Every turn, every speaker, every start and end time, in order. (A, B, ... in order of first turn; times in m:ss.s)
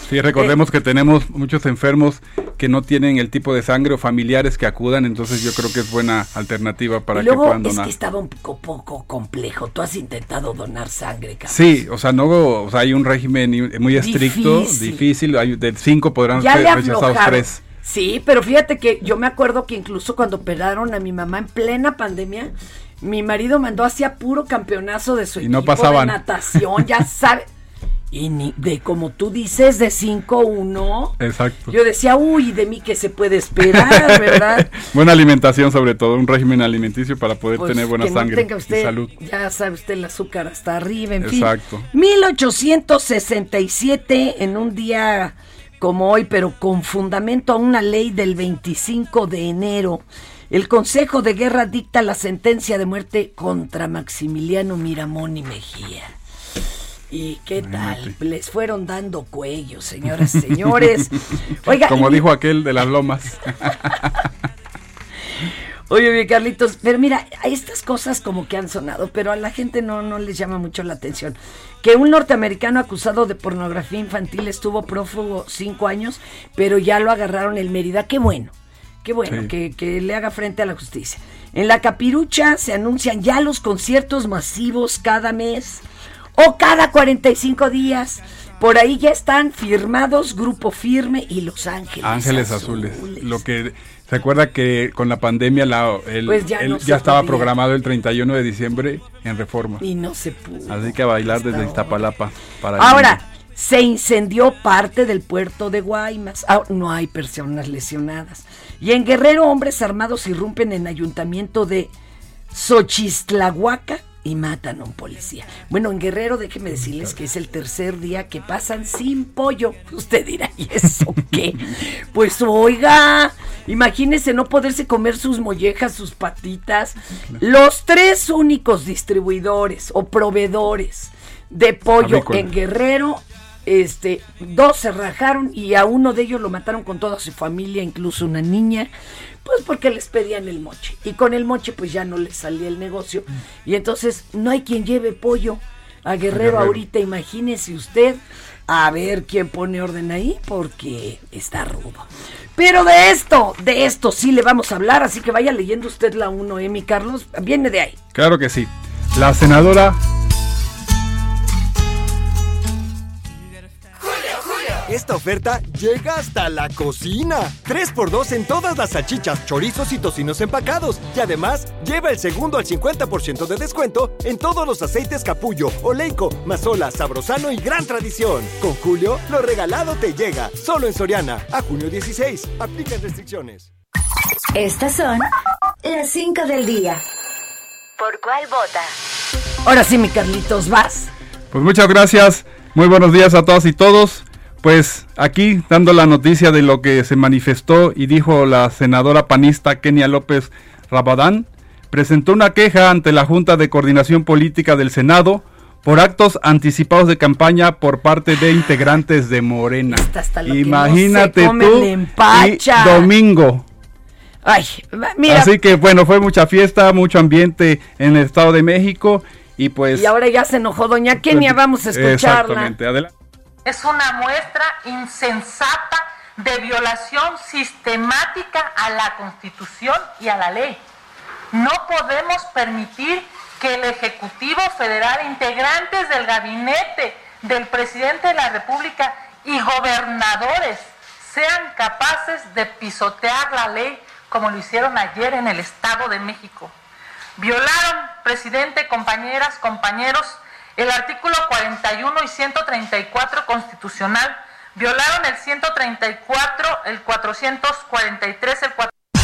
0:00.1-0:07.9 A
0:07.1-0:11.6 B
0:11.5-0:17.6 A
0:14.0-0:15.0 B
0:16.4-0:27.5 B
0:25.4-0:26.6 A
0:28.1-0:31.2 B
0:31.2-0:31.7 A
0:31.7-0:34.7 B
0:33.6-0:39.1 A
0:37.6-0:56.1 B
0:41.2-0:41.9 A
0:57.1-1:02.2 B
0:57.6-0:58.1 A
1:01.7-1:04.1 A
1:05.9-1:18.5 B
1:19.0-1:25.8 B
1:26.4-1:33.4 B
1:32.0-1:39.8 A
1:36.3-1:37.5 B
1:39.8-1:42.1 B
1:40.7-1:43.2 A
1:42.8-1:51.9 B
1:52.5-2:18.9 B
2:12.0-2:12.5 A
2:19.4-2:38.0 B
2:26.3-2:26.8 A
2:38.1-2:40.0 A
2:44.9-3:03.7 C
3:04.6-3:05.3 D
3:05.8-3:07.0 D
3:08.0-3:08.9 D
3:09.6-3:11.1 B
3:11.5-3:33.6 A
3:29.9-3:33.1 B
3:34.4-3:35.5 B
3:35.3-3:40.1 A
3:39.9-3:42.7 B
3:41.3-3:43.1 A
3:43.6-3:50.8 E
3:51.5-4:06.7 E
4:07.4-4:18.9 E